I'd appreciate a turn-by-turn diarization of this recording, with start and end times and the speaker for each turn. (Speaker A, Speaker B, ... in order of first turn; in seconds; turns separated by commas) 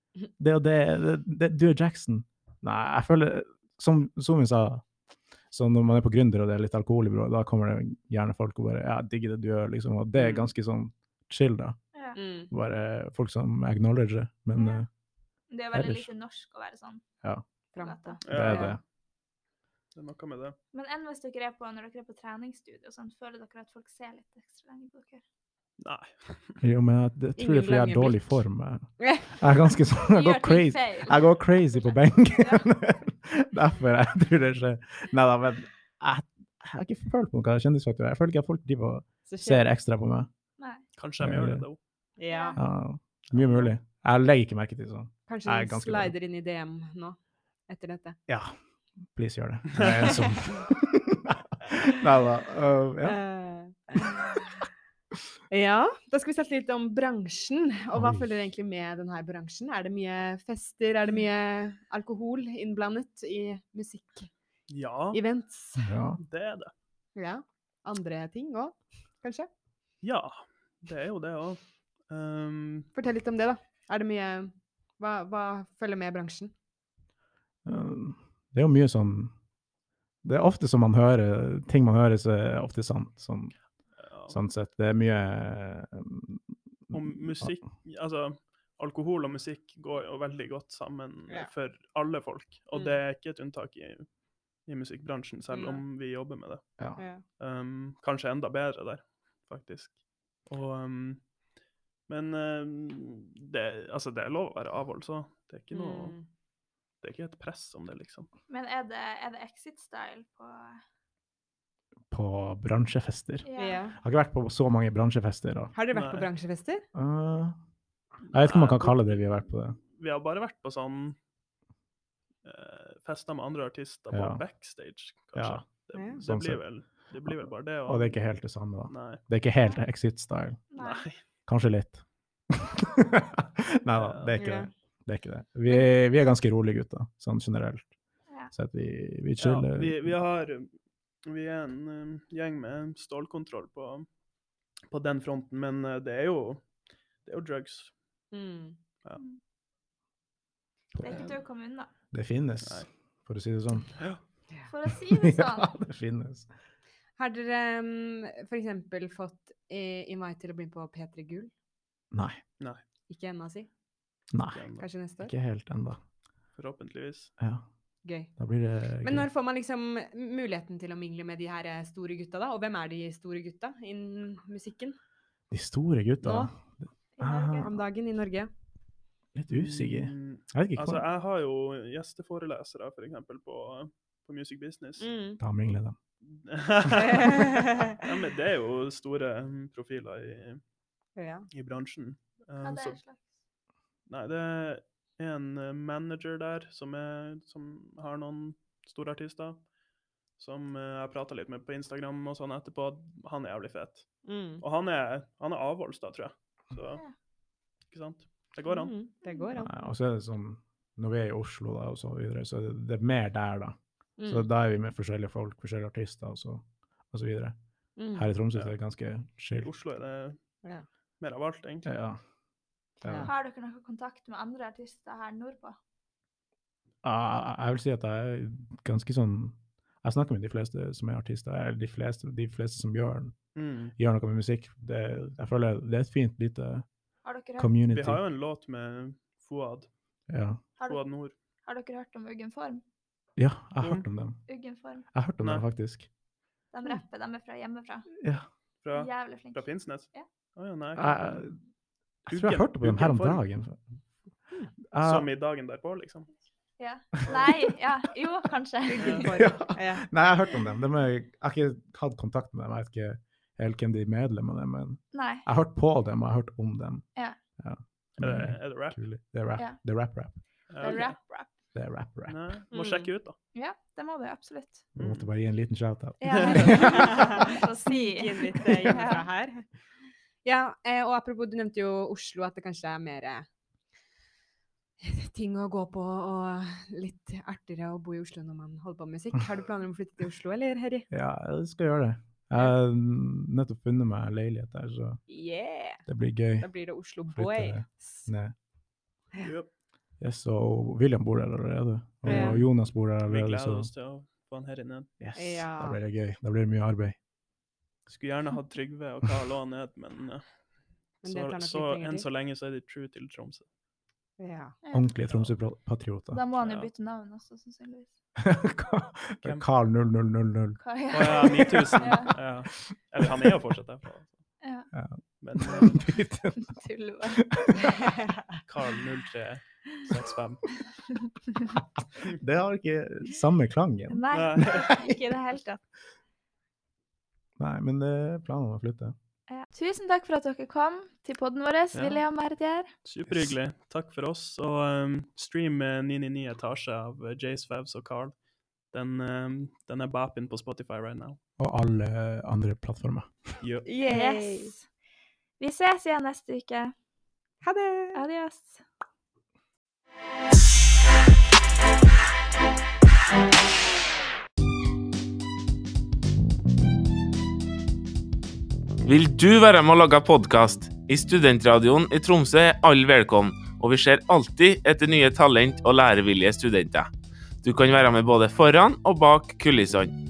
Speaker A: 0.4-4.8, Speaker A: 5.5-11.8, Speaker B: 10.2-10.4, Speaker B: 12.1-12.5, Speaker A: 12.5-14.9, Speaker C: 14.5-14.8, Speaker C: 15.5-17.0, Speaker A: 15.7-16.1, Speaker B: 17.7-18.8, Speaker C: 17.8-18.2, Speaker D: 18.2-18.8, Speaker A: 18.3-18.8, Speaker D: 19.9-20.6, Speaker C: 20.7-25.2, Speaker D: 25.8-26.6, Speaker A: 26.6-40.3, Speaker B: 27.4-28.2, Speaker B: 29.0-29.3, Speaker C: 30.1-32.7, Speaker B: 39.3-39.6, Speaker D: 41.0-41.8, Speaker A: 41.2-41.6, Speaker B: 42.2-42.6, Speaker C: 42.3-42.6, Speaker A: 42.5-46.1, Speaker D: 43.3-43.7, Speaker B: 45.3-48.2, Speaker A: 48.3-48.5, Speaker A: 49.1-53.2, Speaker B: 53.0-54.6, Speaker B: 55.5-64.3, Speaker A: 57.9-58.3, Speaker D: 64.7-65.2, Speaker B: 65.1-66.0, Speaker A: 65.8-66.2, Speaker D: 66.2-66.7, Speaker B: 67.2-69.5, Speaker D: 70.0-72.9, Speaker B: 72.9-76.5, Speaker A: 77.6-79.3, Speaker A: 80.2-83.5, Speaker D: 84.0-84.4, Speaker A: 84.3-87.5, Speaker D: 86.9-101.3, Speaker B: 92.7-93.0, Speaker B: 95.5-95.8, Speaker B: 97.0-97.2, Speaker D: 102.1-106.2, Speaker B: 105.7-106.2, Speaker D: 107.0-108.3, Speaker C: 108.5-110.8, Speaker A: 112.1-115.7, Speaker C: 113.4-113.8, Speaker B: 113.6-114.0, Speaker B: 115.7-116.8, Speaker D: 115.9-116.3, Speaker A: 116.9-117.5, Speaker A: 118.3-119.8, Speaker D: 118.3-121.2, Speaker D: 122.4-128.2, Speaker A: 124.1-124.4, Speaker A: 125.3-126.6, Speaker B: 125.9-126.2, Speaker A: 127.2-130.6, Speaker D: 128.9-129.2, Speaker C: 130.7-131.1, Speaker D: 130.8-131.2, Speaker A: 131.5-137.9, Speaker D: 133.9-134.5, Speaker B: 134.4-134.7, Speaker A: 138.5-140.1, Speaker D: 139.4-140.7, Speaker D: 141.2-144.1, Speaker D: 144.9-147.9, Speaker B: 148.3-148.8, Speaker A: 150.9-151.3, Speaker C: 151.0-151.9, Speaker A: 152.1-154.0, Speaker D: 152.6-152.9, Speaker C: 154.7-155.8, Speaker A: 154.9-156.5, Speaker B: 157.2-161.5, Speaker A: 162.1-162.4, Speaker B: 163.1-163.7, Speaker A: 164.3-164.6, Speaker D: 164.5-164.9, Speaker B: 164.8-165.3, Speaker A: 165.2-166.0, Speaker D: 166.6-167.3, Speaker A: 167.4-167.6, Speaker B: 168.0-168.3, Speaker A: 168.4-169.3, Speaker B: 169.0-175.0, Speaker A: 175.5-177.7, Speaker B: 176.2-176.5, Speaker C: 177.2-177.7, Speaker B: 177.6-178.5, Speaker A: 179.3-181.0, Speaker D: 179.5-185.1, Speaker B: 185.0-185.4, Speaker A: 185.4-185.9, Speaker D: 186.3-190.6, Speaker B: 186.9-188.0, Speaker B: 191.2-191.5, Speaker D: 191.5-193.0, Speaker C: 192.6-193.3, Speaker D: 194.1-199.7, Speaker D: 200.3-207.0, Speaker B: 204.2-204.6, Speaker D: 207.9-208.9, Speaker B: 208.7-209.7, Speaker C: 209.2-209.5, Speaker A: 209.6-217.5, Speaker B: 214.2-214.5, Speaker B: 218.0-218.3, Speaker A: 218.1-219.7, Speaker D: 219.5-220.5, Speaker D: 221.2-221.9, Speaker A: 221.8-222.2, Speaker A: 223.0-223.3, Speaker B: 223.0-223.3, Speaker C: 223.2-225.8, Speaker A: 227.0-233.3, Speaker D: 233.5-233.9, Speaker A: 234.0-236.8, Speaker C: 237.2-237.7, Speaker A: 237.6-238.2, Speaker D: 237.9-239.9, Speaker A: 240.3-240.6, Speaker D: 240.8-241.3, Speaker C: 241.7-242.8, Speaker A: 243.4-244.4, Speaker C: 244.5-245.0, Speaker A: 245.1-246.1, Speaker D: 245.4-245.6, Speaker C: 246.7-248.1, Speaker D: 248.8-251.4, Speaker C: 248.9-250.3, Speaker A: 250.9-251.6, Speaker D: 252.2-253.4, Speaker A: 252.3-253.8, Speaker A: 254.9-255.3, Speaker D: 255.0-256.3, Speaker C: 256.8-259.3, Speaker A: 257.3-257.5, Speaker B: 258.9-260.1, Speaker D: 259.0-259.3, Speaker A: 259.3-267.1, Speaker C: 265.1-265.4, Speaker A: 267.6-270.4, Speaker D: 268.2-269.0, Speaker D: 270.7-271.1, Speaker C: 270.8-271.5, Speaker A: 271.7-272.4, Speaker D: 272.2-273.3, Speaker B: 272.7-273.1, Speaker C: 273.5-274.8, Speaker A: 274.9-277.4, Speaker D: 275.0-275.3, Speaker C: 276.2-279.2, Speaker D: 276.4-276.9, Speaker B: 276.7-279.6, Speaker B: 280.4-283.5, Speaker B: 285.0-291.1, Speaker A: 291.1-295.2, Speaker B: 295.3-296.0, Speaker A: 296.1-296.7, Speaker B: 296.6-298.3, Speaker A: 297.2-298.5, Speaker D: 299.4-299.7, Speaker A: 300.2-303.9, Speaker B: 302.2-302.6, Speaker D: 302.2-305.1, Speaker A: 305.2-307.1, Speaker B: 305.3-306.0, Speaker D: 308.1-310.4, Speaker D: 311.2-313.6, Speaker B: 311.2-312.3, Speaker B: 314.4-314.8, Speaker C: 314.8-315.1, Speaker A: 314.9-316.4, Speaker C: 316.3-318.1, Speaker D: 316.6-316.9, Speaker A: 318.4-322.3, Speaker C: 320.8-322.3, Speaker D: 321.1-324.4, Speaker A: 322.9-323.6, Speaker C: 324.6-324.9, Speaker A: 324.9-326.7, Speaker D: 325.4-326.1, Speaker C: 326.6-327.4, Speaker A: 327.3-328.0, Speaker D: 328.6-330.7, Speaker A: 332.2-335.3, Speaker C: 334.1-335.8, Speaker D: 334.3-334.8, Speaker A: 337.6-339.1, Speaker C: 339.5-342.9, Speaker D: 341.9-342.2, Speaker D: 343.0-351.4, Speaker A: 343.3-343.5, Speaker A: 351.6-353.6, Speaker D: 353.6-353.9, Speaker B: 353.9-354.7, Speaker C: 354.1-354.9, Speaker C: 355.6-356.9, Speaker B: 357.6-358.2, Speaker C: 358.1-358.8, Speaker E: 369.0-377.1, Speaker E: 377.6-380.1